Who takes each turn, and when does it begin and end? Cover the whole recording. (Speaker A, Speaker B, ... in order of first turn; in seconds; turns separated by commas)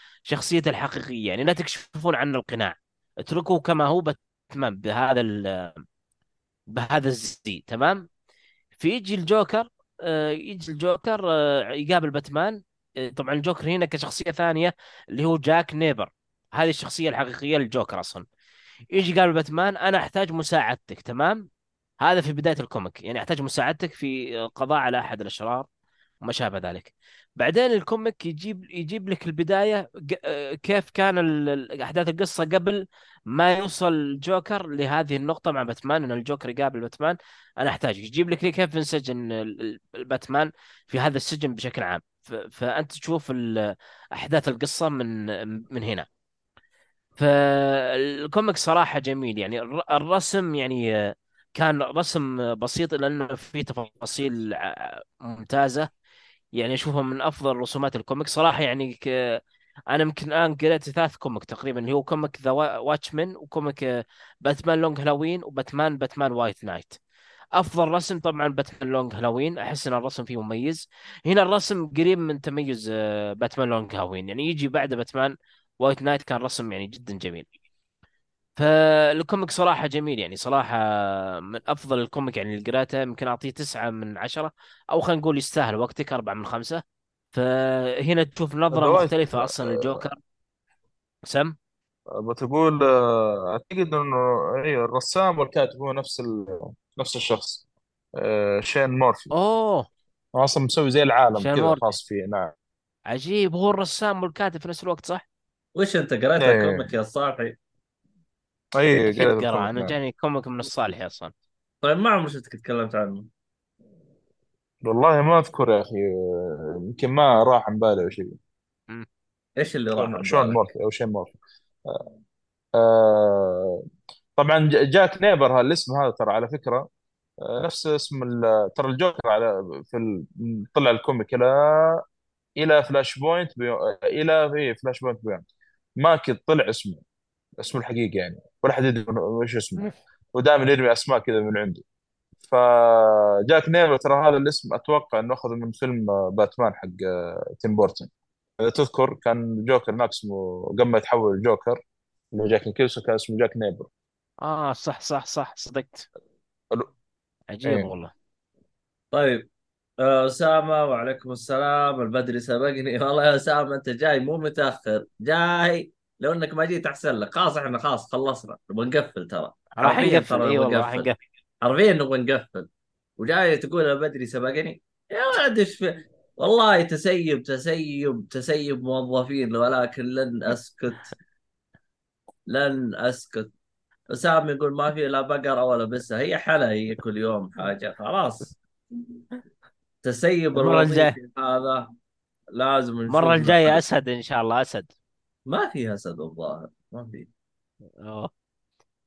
Speaker A: 0.3-5.8, Speaker A: 6.7-8.1, Speaker A: 8.8-18.2, Speaker A: 18.9-21.5, Speaker A: 22.0-25.7, Speaker A: 26.2-46.1, Speaker A: 47.2-55.9, Speaker A: 56.5-59.4, Speaker A: 59.9-67.0, Speaker A: 67.6-77.5, Speaker A: 78.6-90.2, Speaker B: 88.7-90.0, Speaker A: 91.2-91.5, Speaker B: 92.1-97.6, Speaker B: 98.2-99.3, Speaker A: 99.3-99.9, Speaker B: 100.3-102.5, Speaker A: 101.3-102.0, Speaker A: 103.1-105.2, Speaker C: 105.8-107.6, Speaker B: 106.4-106.9, Speaker B: 108.8-110.0, Speaker A: 108.9-111.3, Speaker C: 111.8-113.3, Speaker B: 114.8-118.4, Speaker C: 119.6-120.6, Speaker B: 120.0-122.0, Speaker B: 122.8-123.8, Speaker B: 124.4-126.9, Speaker B: 127.4-132.0, Speaker B: 132.6-135.5, Speaker B: 136.0-137.0, Speaker B: 137.6-141.8, Speaker B: 142.5-151.8, Speaker B: 152.3-153.9, Speaker A: 154.4-156.1, Speaker A: 157.5-158.1, Speaker C: 159.1-159.4, Speaker C: 160.0-171.1, Speaker A: 169.8-171.2, Speaker C: 171.6-181.1, Speaker C: 182.5-183.5, Speaker C: 184.1-188.6, Speaker C: 190.0-191.9, Speaker A: 190.5-191.2, Speaker C: 192.5-193.8, Speaker A: 193.1-194.9, Speaker C: 195.5-197.3, Speaker A: 198.0-198.3